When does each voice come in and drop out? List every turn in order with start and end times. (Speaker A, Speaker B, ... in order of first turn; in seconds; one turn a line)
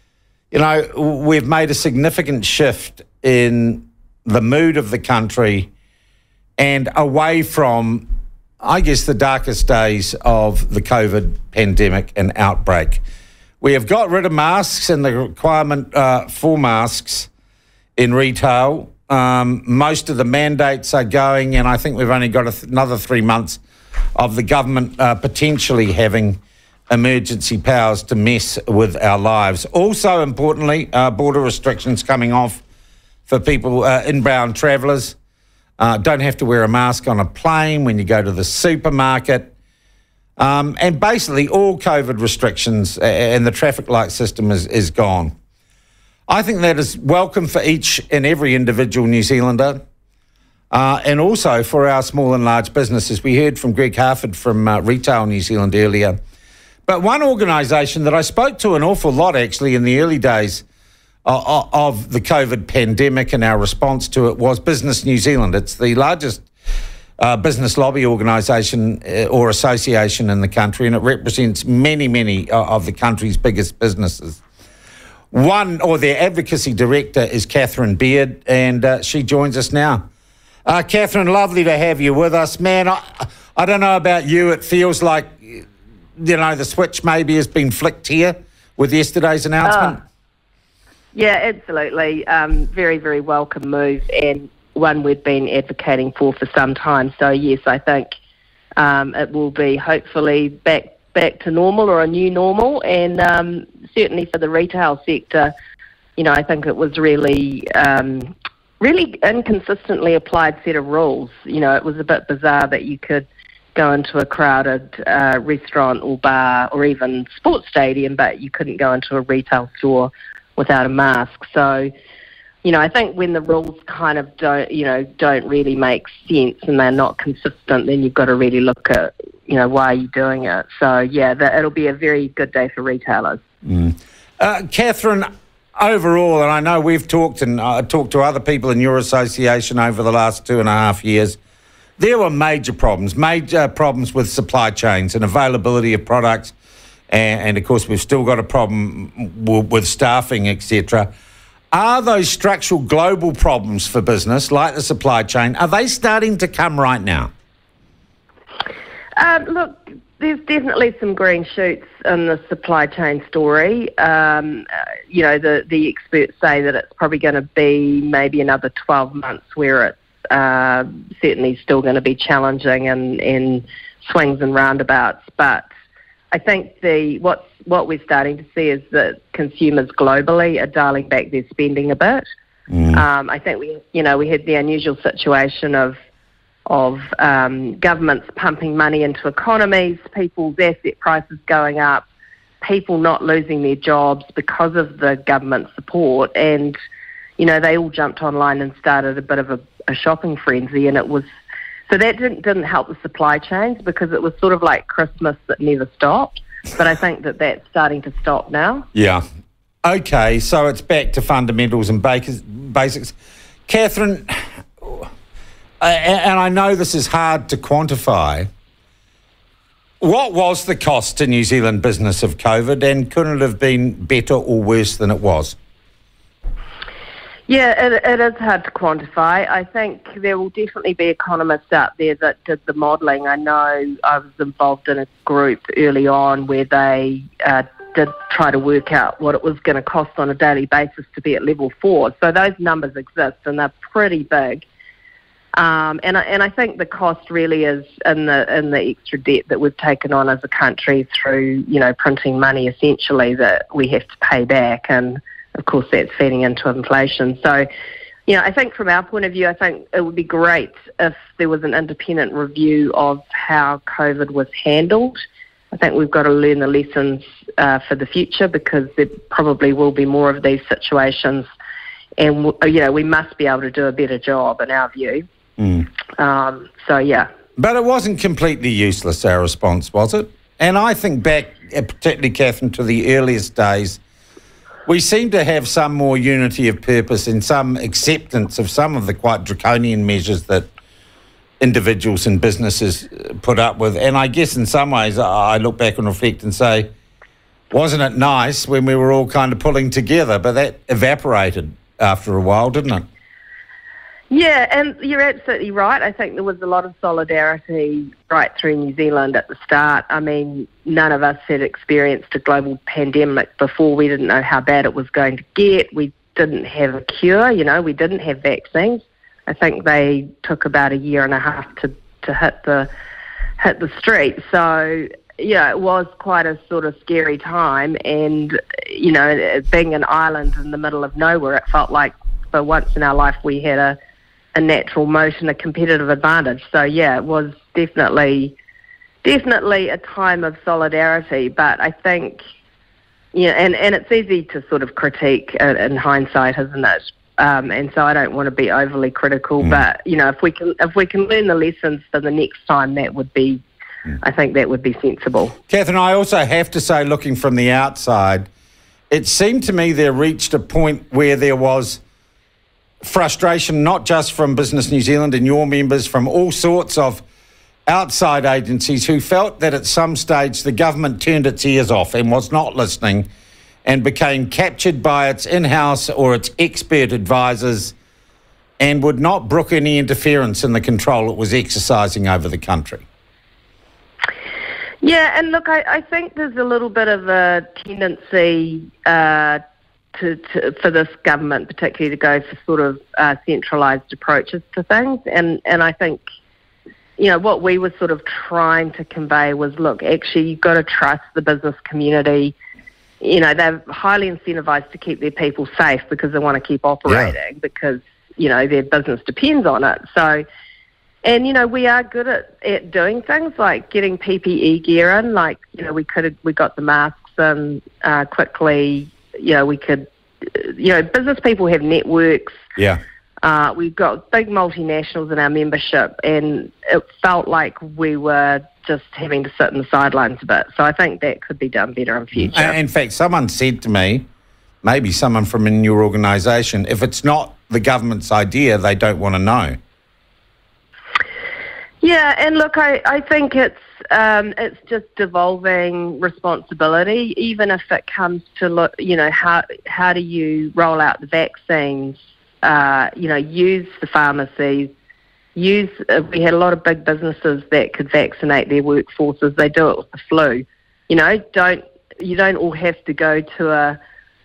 Speaker A: 0.5-5.7
Speaker A: 6.6-8.1
Speaker A: 8.6-13.0
Speaker A: 13.6-17.3
Speaker A: 18.0-23.6
Speaker A: 24.1-32.6
Speaker A: 33.3-35.2
Speaker A: 35.8-39.5
Speaker A: 40.4-45.3
Speaker A: 46.3-49.8
Speaker A: 50.7-56.2
Speaker A: 56.9-60.6
Speaker A: 61.2-66.5
Speaker A: 67.2-74.4
Speaker A: 75.3-80.0
Speaker A: 80.7-85.7
Speaker A: 86.2-90.0
Speaker B: 89.6-90.0
Speaker B: 91.1-98.1
Speaker B: 98.8-105.5
Speaker B: 106.2-121.9
Speaker B: 122.6-133.4
Speaker A: 133.7-141.4
Speaker A: 142.0-146.5
Speaker A: 147.1-151.1
Speaker A: 151.7-157.3
Speaker B: 159.2-175.7
Speaker B: 176.3-182.2
Speaker A: 182.7-183.0
Speaker B: 182.9-185.9
Speaker B: 186.7-192.1
Speaker B: 192.6-196.8
Speaker B: 197.4-201.3
Speaker B: 201.9-208.9
Speaker A: 208.9-209.2
Speaker A: 209.8-213.2
Speaker A: 213.7-215.1
Speaker A: 215.8-218.5
Speaker A: 220.0-225.6
Speaker B: 227.5-244.7
Speaker B: 245.6-257.7
Speaker B: 258.3-265.2
Speaker B: 265.7-271.5
Speaker B: 272.2-275.3
Speaker A: 275.6-275.9
Speaker B: 276.2-277.3
Speaker A: 277.6-284.0
Speaker A: 284.9-290.7
Speaker A: 291.6-296.9
Speaker A: 297.7-303.0
Speaker B: 304.3-322.9
Speaker B: 323.6-334.0
Speaker B: 334.5-338.6
Speaker B: 339.2-342.4
Speaker B: 343.3-353.6
Speaker B: 354.2-355.6
Speaker A: 355.7-358.5
Speaker A: 359.1-362.0
Speaker A: 363.0-367.2
Speaker A: 367.9-373.3
Speaker A: 373.9-377.9
Speaker A: 378.8-383.1
Speaker B: 385.0-389.6
Speaker B: 390.1-396.2
Speaker B: 397.2-402.6
Speaker B: 403.2-410.4
Speaker A: 407.1-407.4
Speaker B: 411.2-422.6
Speaker B: 423.4-432.8
Speaker A: 432.4-434.3
Speaker A: 434.8-439.8
Speaker B: 442.0-454.9
Speaker B: 455.6-464.0